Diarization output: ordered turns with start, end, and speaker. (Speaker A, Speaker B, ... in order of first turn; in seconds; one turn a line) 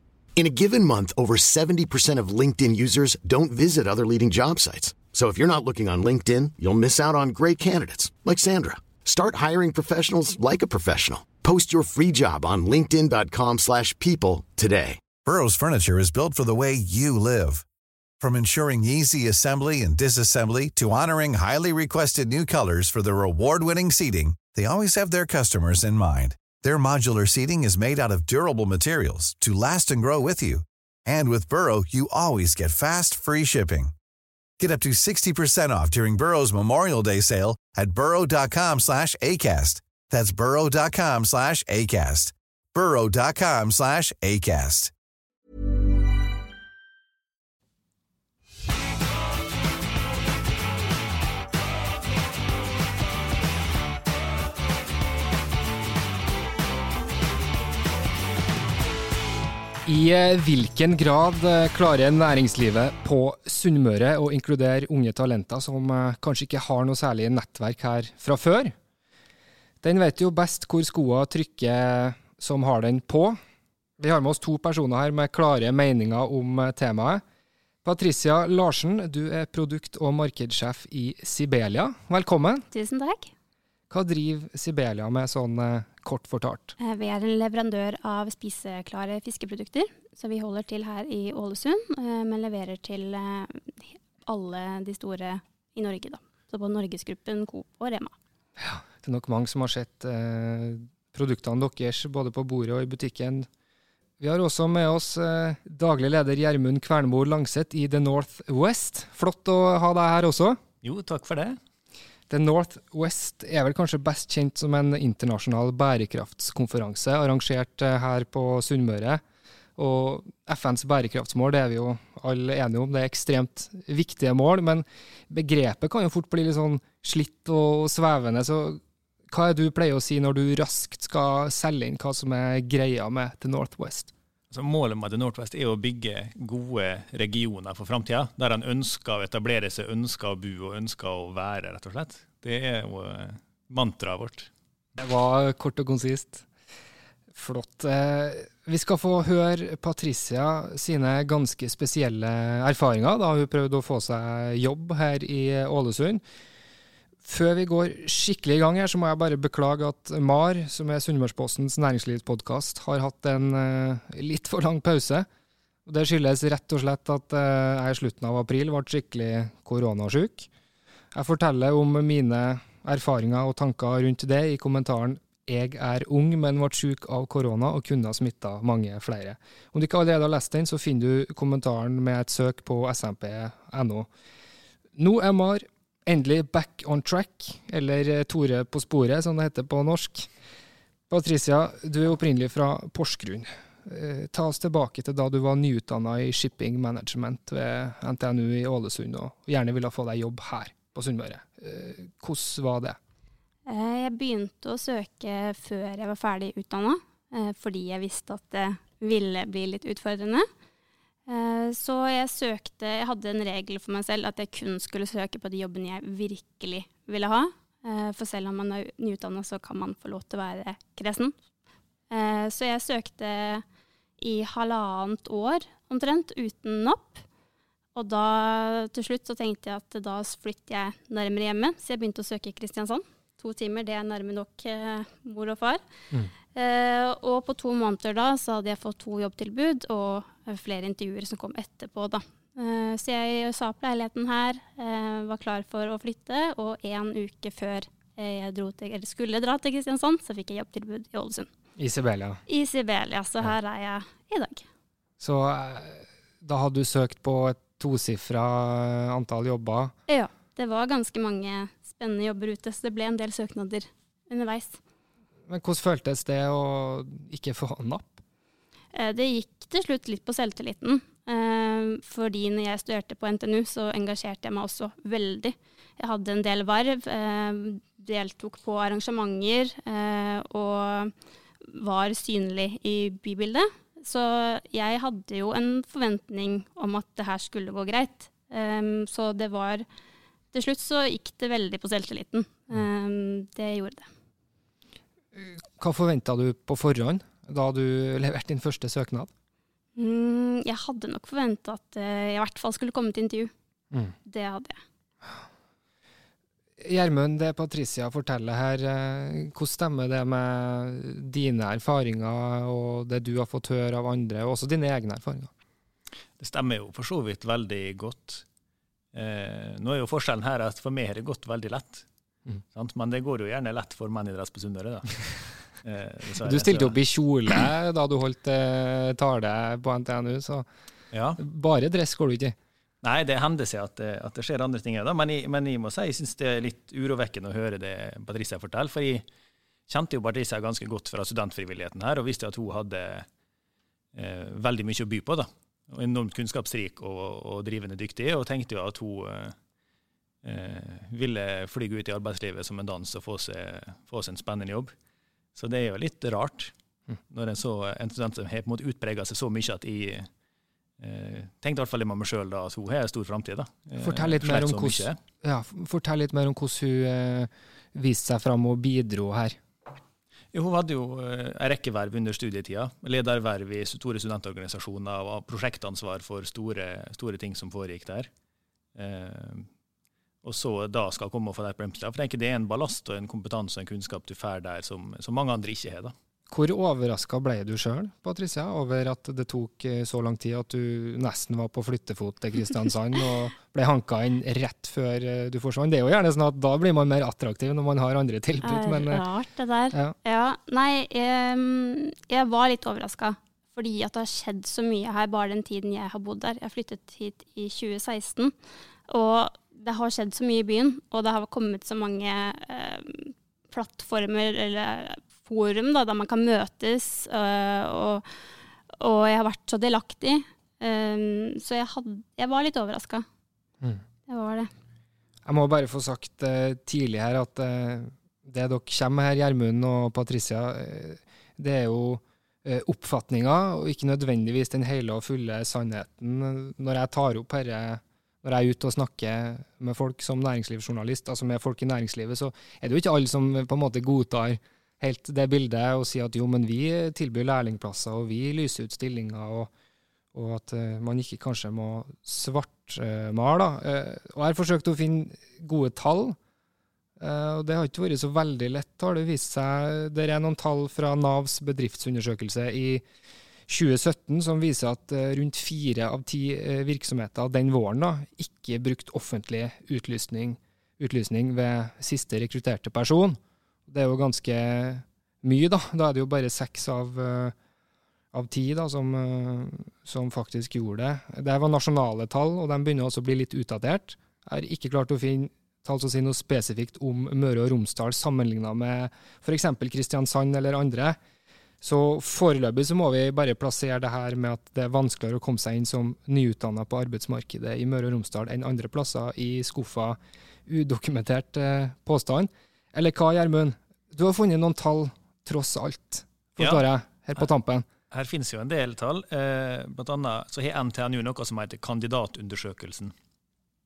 Speaker A: 0.4-15.0
Speaker B: 15.2-17.6
Speaker B: 18.2-33.9
Speaker B: 34.6-44.9
Speaker C: 59.9-68.7
Speaker C: 69.8-73.4
Speaker C: 74.0-77.2
Speaker C: 77.8-82.7
Speaker D: 82.7-83.3
Speaker C: 83.9-86.8
Speaker D: 86.8-98.1
Speaker C: 98.6-103.5
Speaker C: 104.2-110.6
Speaker E: 110.8-111.6
Speaker C: 112.3-119.2
Speaker C: 119.8-134.1
Speaker E: 134.5-144.5
Speaker C: 145.0-146.4
Speaker C: 147.3-156.2
Speaker C: 157.2-165.3
Speaker C: 165.8-170.5
Speaker C: 171.1-184.1
Speaker C: 184.9-190.3
Speaker C: 191.1-203.0
Speaker D: 203.7-210.5
Speaker D: 211.3-221.3
Speaker D: 222.1-223.6
Speaker D: 224.2-227.2
Speaker D: 227.9-235.8
Speaker D: 236.5-251.5
Speaker C: 251.8-252.4
Speaker D: 252.5-254.6
Speaker C: 255.2-259.9
Speaker D: 260.1-264.8
Speaker C: 265.5-268.2
Speaker D: 268.9-281.1
Speaker D: 281.6-289.9
Speaker D: 290.5-294.1
Speaker C: 295.3-299.3
Speaker D: 299.9-303.5
Speaker D: 304.2-304.8
Speaker C: 306.8-315.5
Speaker E: 316.4-318.4
Speaker E: 319.1-322.1
Speaker E: 322.7-325.3
Speaker E: 325.8-327.0
Speaker C: 326.4-330.7
Speaker E: 331.1-331.4
Speaker C: 331.4-332.6
Speaker E: 333.0-339.2
Speaker E: 339.9-343.3
Speaker E: 344.1-349.5
Speaker E: 350.4-354.9
Speaker E: 355.6-356.7
Speaker E: 357.3-360.3
Speaker E: 361.0-365.2
Speaker C: 364.0-369.6
Speaker E: 370.5-378.3
Speaker E: 378.9-379.7
Speaker E: 380.4-386.1
Speaker C: 386.5-399.2
Speaker D: 398.6-408.5
Speaker D: 409.1-418.2
Speaker D: 418.9-423.2
Speaker D: 424.3-424.7
Speaker C: 425.4-449.7
Speaker C: 450.3-456.4
Speaker C: 457.2-463.0
Speaker C: 463.7-477.5
Speaker C: 478.3-491.2
Speaker C: 491.8-507.9
Speaker E: 506.6-506.8
Speaker E: 508.1-513.1